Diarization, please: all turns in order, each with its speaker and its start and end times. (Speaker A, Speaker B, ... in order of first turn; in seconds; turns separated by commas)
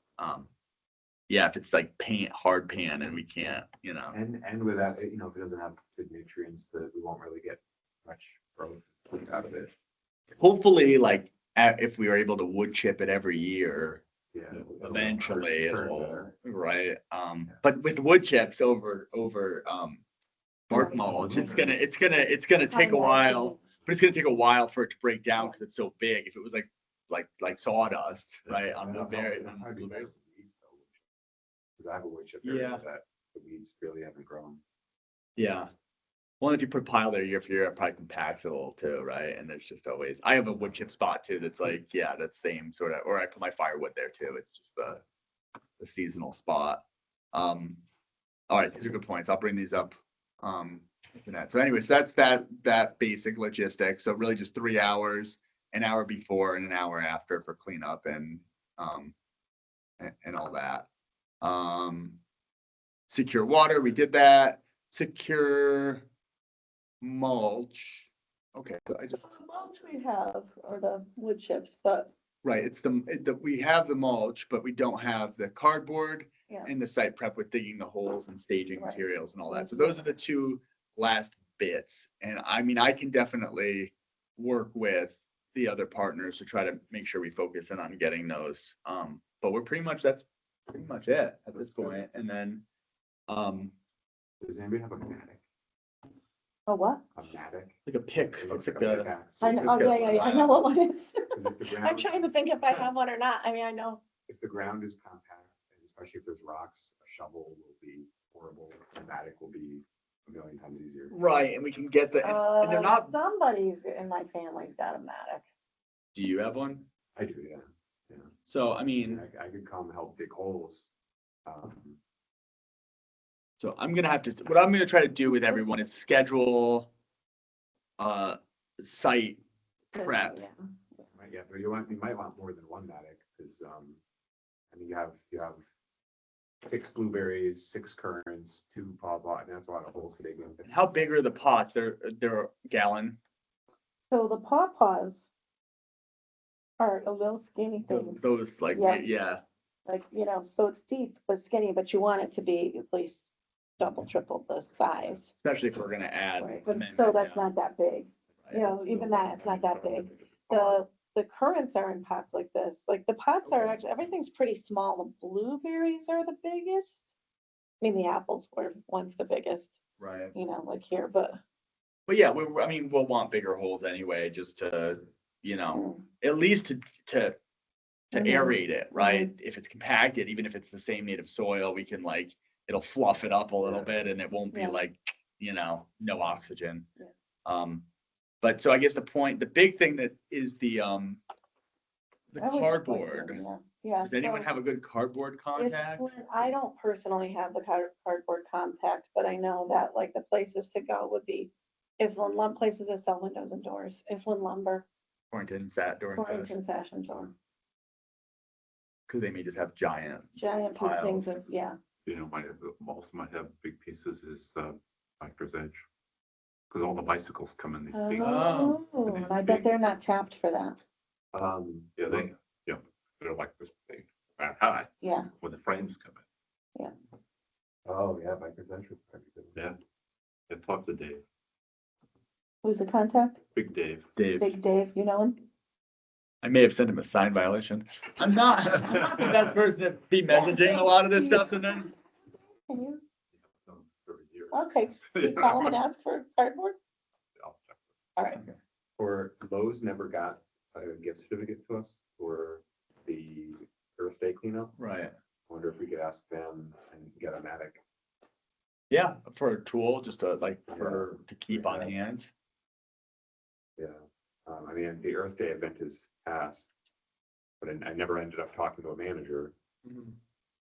Speaker A: 0.2-0.5, Speaker A: 1.3-4.2, Speaker B: 4.1-9.7, Speaker A: 10.4-14.0, Speaker B: 14.3-16.3, Speaker C: 14.5-14.8, Speaker A: 14.8-20.0, Speaker A: 20.7-30.1, Speaker D: 20.7-21.7, Speaker B: 21.0-21.9, Speaker D: 22.7-23.6, Speaker B: 28.4-30.9, Speaker B: 31.8-34.6, Speaker A: 32.4-32.8, Speaker A: 35.4-35.7, Speaker A: 36.4-45.0, Speaker A: 45.8-46.8, Speaker A: 47.3-47.8, Speaker A: 48.5-59.1, Speaker A: 60.0-60.9, Speaker A: 61.4-62.2, Speaker A: 63.1-66.0, Speaker A: 67.0-69.3, Speaker D: 69.1-72.1, Speaker A: 72.4-92.6, Speaker D: 78.7-80.1, Speaker B: 91.6-92.0, Speaker A: 93.3-93.7, Speaker B: 94.4-95.4, Speaker D: 96.7-97.0, Speaker B: 97.1-97.8, Speaker A: 97.8-100.5, Speaker B: 98.3-100.3, Speaker D: 99.4-104.0, Speaker B: 101.3-102.3, Speaker B: 104.3-111.1, Speaker A: 111.1-113.1, Speaker D: 112.2-115.4, Speaker A: 116.1-116.8, Speaker B: 117.2-118.3, Speaker A: 118.5-119.2, Speaker B: 119.0-120.9, Speaker B: 121.5-122.0, Speaker A: 123.6-126.9, Speaker A: 128.0-129.4, Speaker A: 129.9-130.4, Speaker D: 129.9-130.5, Speaker B: 131.1-134.0, Speaker B: 134.7-135.6, Speaker B: 136.6-140.7, Speaker A: 140.6-143.2, Speaker D: 144.1-145.3, Speaker D: 146.8-148.2, Speaker A: 147.8-149.4, Speaker D: 148.7-149.0, Speaker D: 149.8-155.3, Speaker A: 155.2-157.5, Speaker D: 156.4-167.1, Speaker A: 158.4-158.8, Speaker C: 158.9-160.6, Speaker A: 163.4-163.8, Speaker D: 167.8-169.7, Speaker A: 170.0-170.3, Speaker D: 170.3-171.4, Speaker A: 172.1-177.3, Speaker D: 175.7-176.0, Speaker D: 178.1-179.3, Speaker A: 178.1-186.8, Speaker B: 183.6-183.9, Speaker D: 184.5-184.8, Speaker A: 187.4-187.8, Speaker A: 188.4-191.2, Speaker A: 192.3-193.4, Speaker D: 192.4-194.5, Speaker A: 194.0-196.2, Speaker D: 195.6-204.8, Speaker A: 205.3-206.5, Speaker D: 206.1-207.3, Speaker A: 209.1-211.2, Speaker D: 210.3-211.8, Speaker C: 212.0-215.8, Speaker C: 216.7-219.7, Speaker D: 217.9-220.8, Speaker A: 218.2-218.8, Speaker B: 221.3-222.3, Speaker C: 221.9-226.2, Speaker D: 225.0-225.3, Speaker B: 227.8-229.5, Speaker C: 230.5-231.2, Speaker D: 232.6-233.4, Speaker C: 233.5-234.1, Speaker A: 234.2-234.5, Speaker D: 234.4-235.4, Speaker A: 236.4-241.9, Speaker D: 240.3-241.9, Speaker D: 242.6-243.0, Speaker C: 243.4-245.8, Speaker D: 244.5-246.8, Speaker C: 247.4-247.8, Speaker A: 248.3-248.6, Speaker B: 249.0-254.8, Speaker A: 254.8-255.1, Speaker B: 255.5-257.8, Speaker A: 258.9-262.3, Speaker B: 260.7-261.9, Speaker B: 263.8-266.7, Speaker B: 267.6-269.5, Speaker A: 269.8-270.1